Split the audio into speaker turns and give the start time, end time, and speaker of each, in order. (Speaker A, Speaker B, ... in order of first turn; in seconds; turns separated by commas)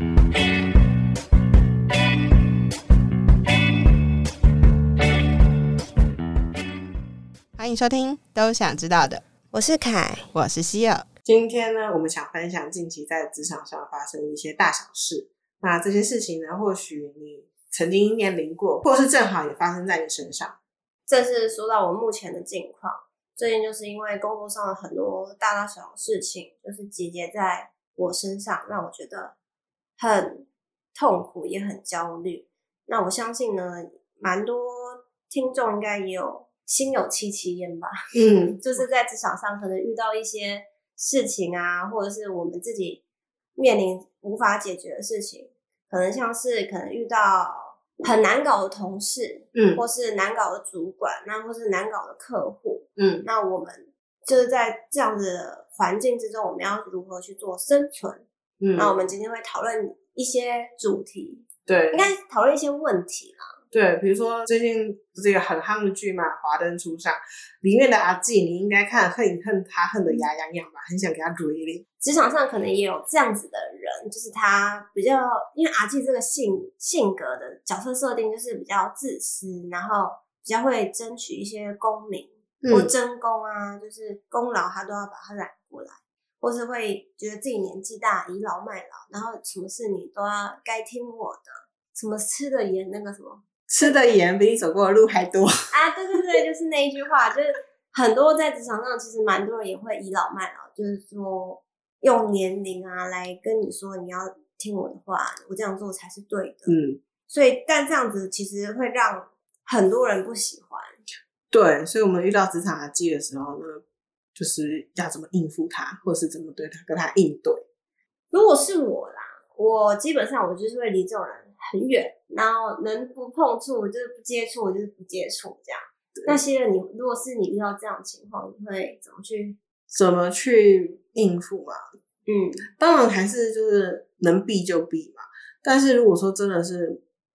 Speaker A: 7.5-9.2, Speaker B: 9.5-10.3, Speaker A: 10.3-11.1, Speaker C: 11.2-20.6, Speaker B: 21.1-29.3, Speaker B: 30.0-43.0, Speaker C: 38.1-38.6, Speaker B: 43.5-58.2, Speaker C: 49.5-49.8, Speaker C: 53.0-53.2, Speaker C: 58.6-59.0, Speaker B: 58.8-63.5, Speaker C: 61.6-62.1, Speaker C: 63.7-71.8, Speaker B: 72.0-93.9, Speaker C: 82.6-82.9, Speaker C: 93.7-95.5, Speaker B: 95.7-106.7, Speaker C: 106.7-107.0, Speaker B: 107.3-110.9, Speaker C: 111.5-113.8, Speaker C: 114.3-117.6, Speaker B: 118.3-129.6, Speaker C: 129.9-131.8, Speaker B: 132.2-132.6, Speaker C: 132.7-137.0